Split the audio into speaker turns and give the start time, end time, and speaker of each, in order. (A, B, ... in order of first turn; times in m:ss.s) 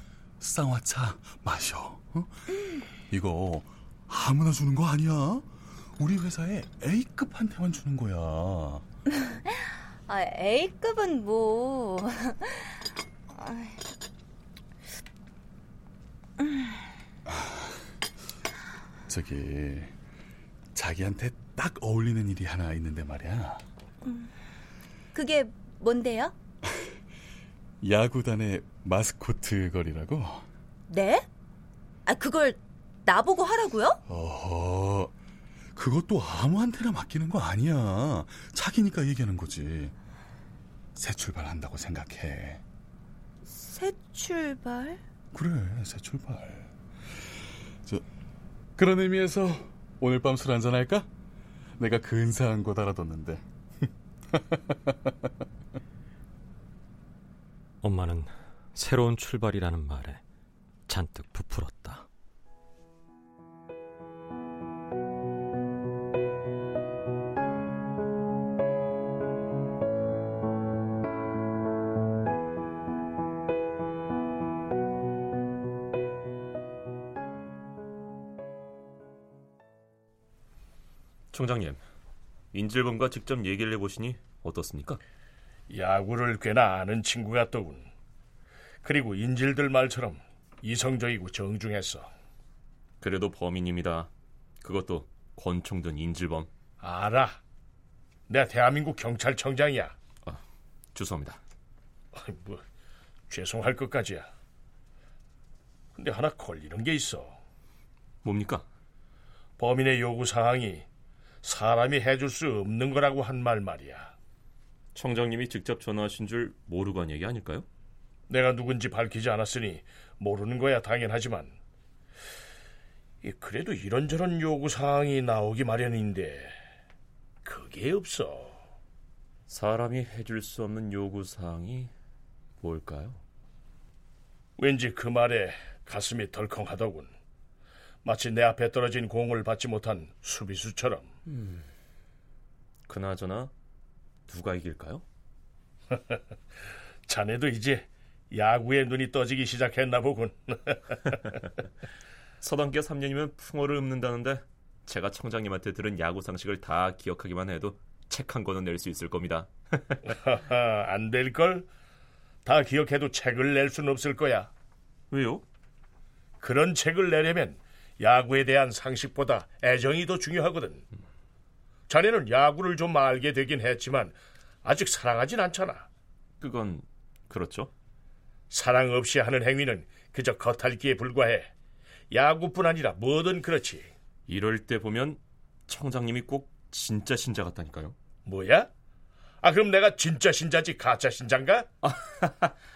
0:00.4-0:02.3 A
0:03.1-0:05.5 A
0:06.0-0:08.8 A
0:10.1-0:12.3 B
0:13.4-0:13.6 B
0:19.1-0:20.0 A
0:20.8-0:23.6 A
0:24.1-0:24.3 B
0:25.1-0:26.3 B
0:27.8-0:30.4 A
0:30.9-0:31.2 B
0:32.1-0:34.0 B
0:34.1-0:35.1 A
0:35.8-0:39.9 A
0:41.0-0:42.6 A
0:43.6-0:45.0 B
0:45.3-0:46.7 A
0:48.8-0:51.1 A
0:51.8-0:53.4 A
0:54.3-0:55.2 A
0:57.8-1:00.2 C
1:00.9-1:02.1 C
1:21.3-1:21.8 D
1:22.5-1:25.0 D
1:25.7-1:27.9 E
1:28.8-1:32.1 E
1:33.0-1:34.1 D
1:34.6-1:36.5 D
1:36.8-1:37.4 E
1:38.3-1:39.9 E
1:41.0-1:41.4 D
1:42.1-1:42.6 E
1:43.3-1:44.3 E
1:46.0-1:47.4 E
1:48.2-1:48.7 D
1:49.6-1:50.9 E
1:51.4-1:54.1 E
1:55.0-1:57.7 D
1:58.3-2:01.6 E
2:03.2-2:06.6 E
2:07.4-2:08.6 E
2:09.5-2:11.9 D
2:12.6-2:13.2 D
2:14.6-2:17.1 E
2:18.0-2:21.1 E
2:22.9-2:23.5 D
2:24.3-2:25.0 D
2:27.1-2:31.0 E
2:32.4-2:40.0 D
2:40.1-2:41.7 E
2:42.5-2:44.5 E
2:45.1-2:45.4 D
2:46.4-2:50.8 E
2:51.9-2:55.9 E
2:56.4-2:57.7 D
2:58.5-3:01.5 E
3:02.1-3:03.9 E
3:04.3-3:08.0 D
3:08.2-3:08.7 E
3:09.4-3:11.7 E
3:11.8-3:12.5 D